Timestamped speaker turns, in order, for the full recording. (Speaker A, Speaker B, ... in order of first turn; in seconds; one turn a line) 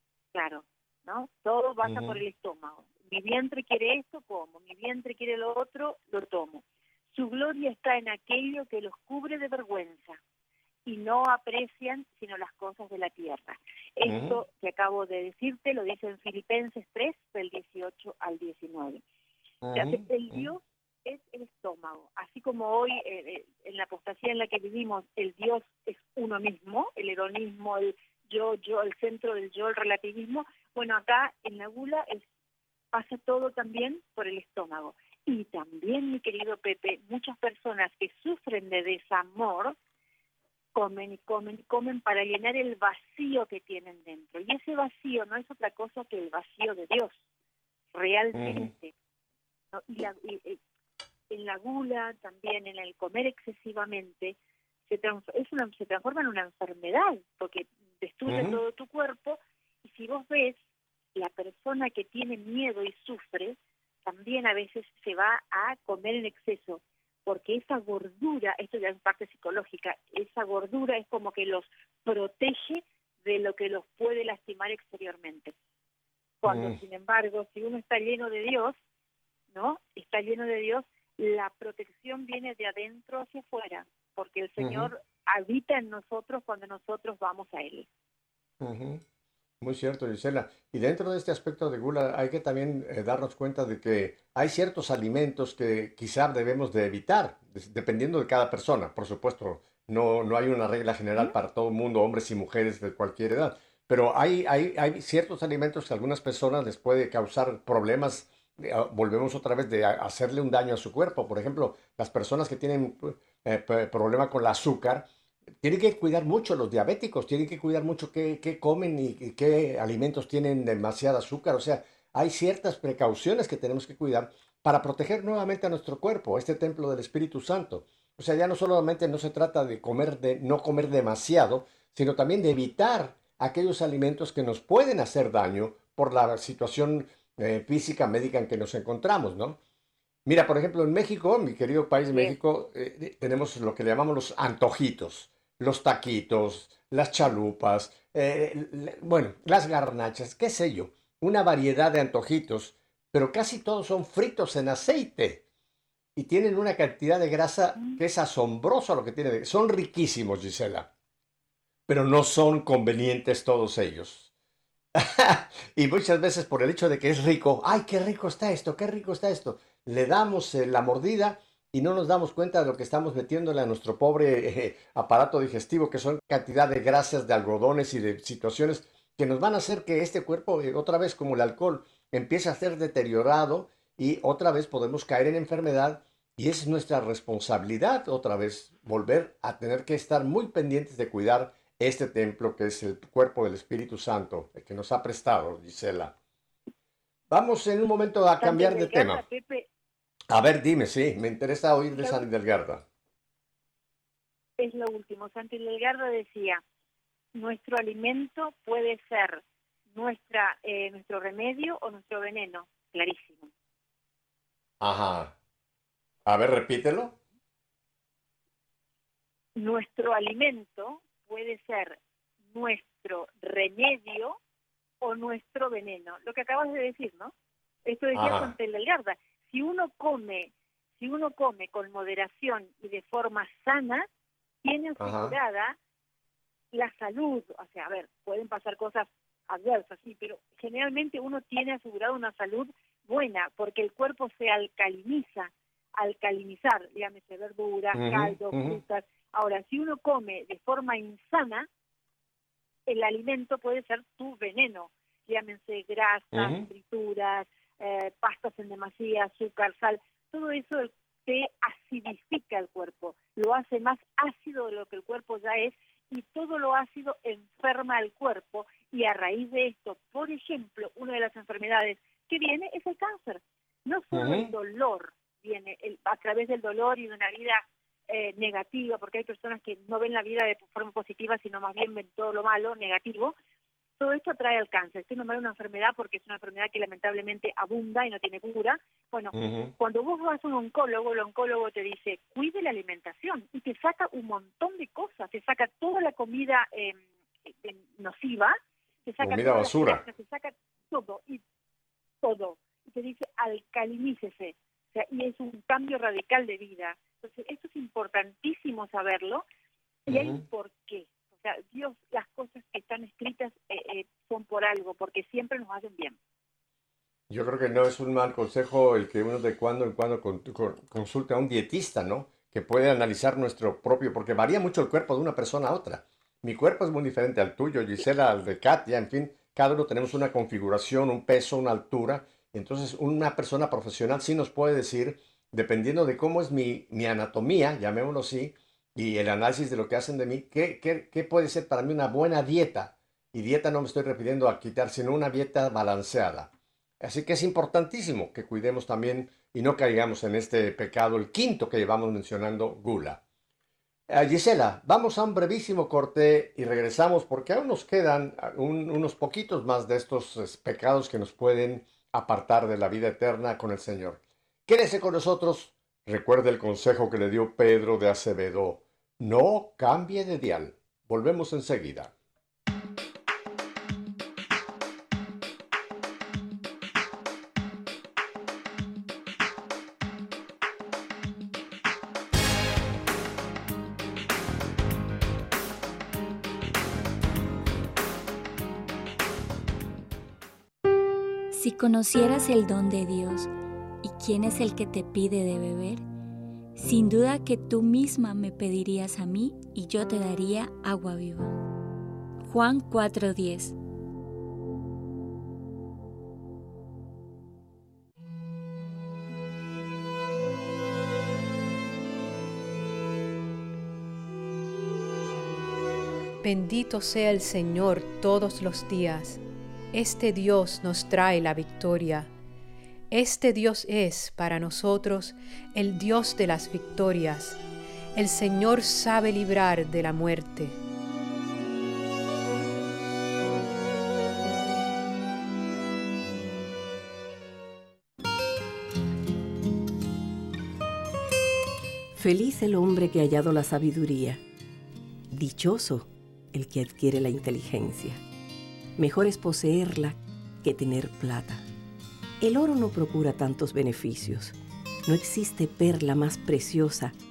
Speaker A: 0.3-10.2
Speaker B: 1.8-2.2
Speaker A: 10.8-19.0
Speaker B: 14.0-14.4
Speaker B: 19.6-20.5
Speaker A: 19.7-32.3
Speaker A: 32.9-39.8
Speaker A: 40.8-47.2
Speaker A: 47.9-48.9
Speaker B: 48.3-48.7
Speaker A: 49.7-50.6
Speaker A: 51.3-54.4
Speaker A: 54.9-60.6
Speaker B: 58.3-58.6
Speaker A: 61.1-75.5
Speaker A: 76.4-78.8
Speaker B: 76.5-76.8
Speaker A: 79.5-87.9
Speaker B: 84.6-84.9
Speaker B: 88.6-89.0
Speaker B: 89.6-115.1
Speaker B: 115.6-139.6
Speaker B: 140.2-155.4
Speaker A: 142.1-142.4
Speaker B: 156.2-160.9
Speaker B: 161.9-164.3
Speaker B: 164.9-196.1
Speaker B: 197.3-199.2
Speaker A: 198.4-199.7
Speaker B: 200.3-202.8
Speaker A: 202.0-202.3
Speaker A: 204.6-206.6
Speaker A: 207.3-213.5
Speaker B: 214.8-215.4
Speaker B: 216.2-217.2
Speaker A: 219.6-222.0
Speaker A: 222.5-224.4
Speaker A: 225.0-227.3
Speaker A: 227.9-234.1
Speaker B: 228.2-228.5
Speaker A: 234.6-235.8
Speaker B: 235.0-235.4
Speaker A: 236.7-251.7
Speaker B: 247.9-248.8
Speaker A: 252.9-283.3
Speaker B: 256.3-256.6
Speaker B: 274.1-274.5
Speaker A: 284.0-301.4
Speaker B: 289.3-289.7
Speaker B: 299.2-300.0
Speaker A: 302.2-309.4
Speaker B: 310.1-310.4
Speaker A: 310.1-316.2
Speaker B: 317.3-353.2
Speaker B: 354.1-372.1
Speaker C: 391.5-393.5
Speaker C: 394.0-396.1
Speaker C: 396.8-401.6
Speaker C: 402.4-403.8
Speaker D: 416.4-419.4
Speaker D: 419.9-422.3
Speaker D: 423.1-427.6
Speaker D: 428.1-430.8
Speaker E: 442.1-444.4
Speaker E: 445.3-448.2
Speaker E: 449.0-451.6
Speaker E: 452.4-457.1